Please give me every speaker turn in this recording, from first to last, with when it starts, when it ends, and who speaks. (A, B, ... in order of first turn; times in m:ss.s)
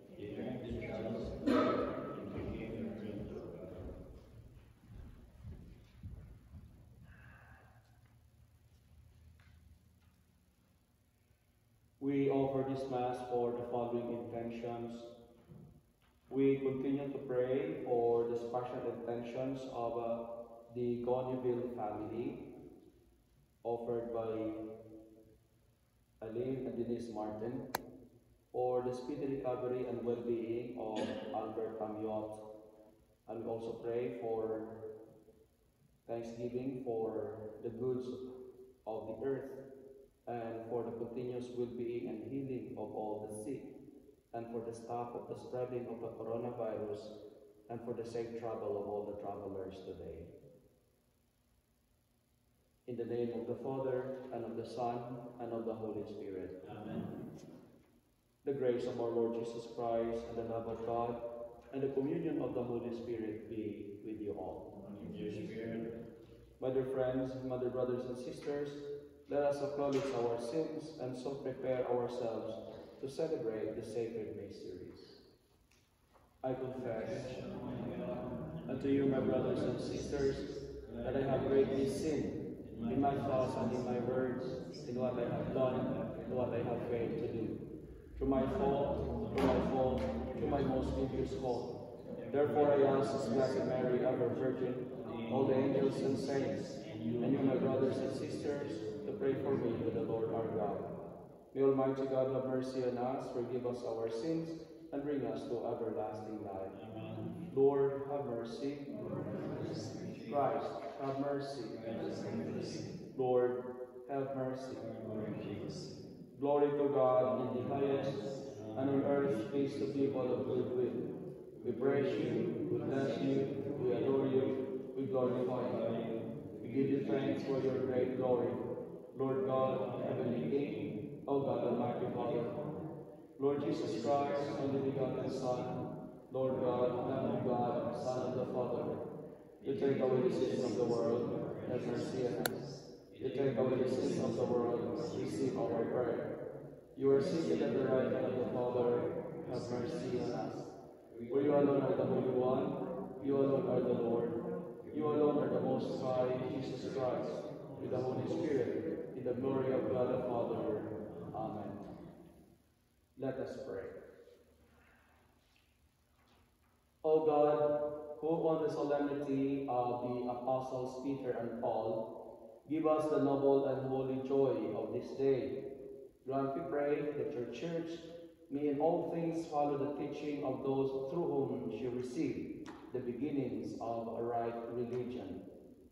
0:00.2-0:03.9 A
0:12.0-0:15.1 B
0:16.3-0:22.4 B
0:23.6-0:24.6 B
0:26.2-0:27.7 B
0:28.5-0:32.4 B
0:33.3-0:34.8 B
0:36.1-0:38.3 B
0:38.8-0:39.6 B
0:40.2-0:43.7 B
0:44.3-0:47.1 B
0:47.7-0:50.3 B
0:52.9-0:56.6 B
0:56.6-0:57.1 A
0:58.4-1:01.2 B
1:01.7-1:04.7 B
1:04.9-1:05.9 A
1:06.6-1:15.2 B
1:16.4-1:17.4 B
1:17.3-1:17.9 A
1:18.7-1:20.5 B
1:21.0-1:27.6 B
1:28.2-1:31.7 B
1:32.3-1:33.3 A
1:32.3-1:40.9 B
1:35.2-1:35.9 A
1:36.8-1:39.3 A
1:41.5-1:46.8 B
1:46.7-1:47.4 A
1:47.5-1:48.9 B
1:49.1-1:50.4 A
1:50.3-1:51.8 B
1:51.7-1:52.9 A
1:53.1-1:54.8 B
1:54.7-1:55.9 A
1:56.4-1:58.2 B
1:58.8-2:01.1 B
2:01.6-2:05.8 B
2:06.6-2:08.6 B
2:09.1-2:12.5 B
2:13.4-2:19.0 B
2:19.6-2:22.6 B
2:23.2-2:26.3 B
2:27.0-2:30.7 B
2:31.3-2:34.4 B
2:34.9-2:41.8 B
2:43.2-2:44.0 B
2:47.0-2:52.0 B
2:52.6-2:55.6 B
2:56.2-3:05.4 B